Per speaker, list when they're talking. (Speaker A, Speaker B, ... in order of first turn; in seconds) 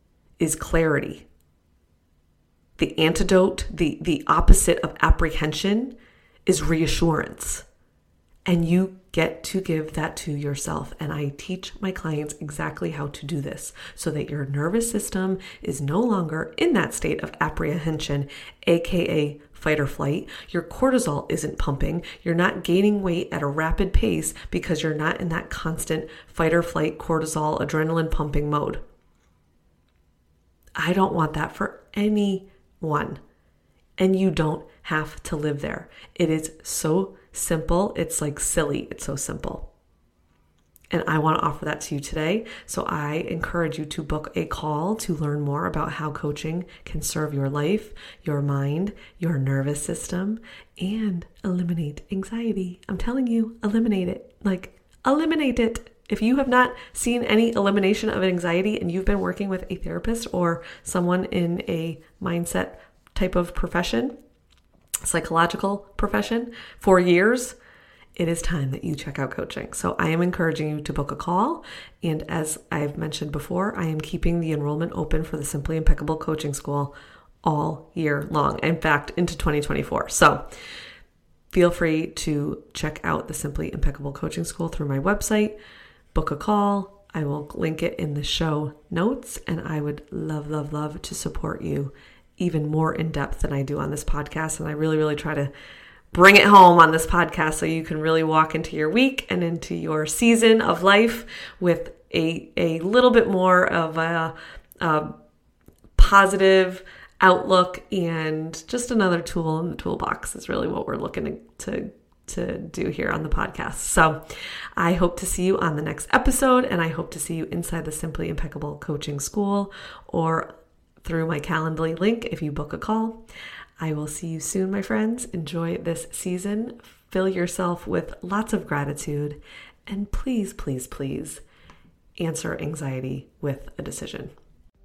Speaker A: 0.4-1.3, 2.8-5.9, 6.5-7.7, 8.4-28.8, 30.8-33.2, 34.0-39.7, 40.9-64.1, 65.0-67.6, 68.2-80.4, 81.5-85.5, 86.1-95.5, 96.1-105.1, 106.0-114.2, 114.8-120.5, 121.0-123.2, 123.8-131.4, 132.2-134.3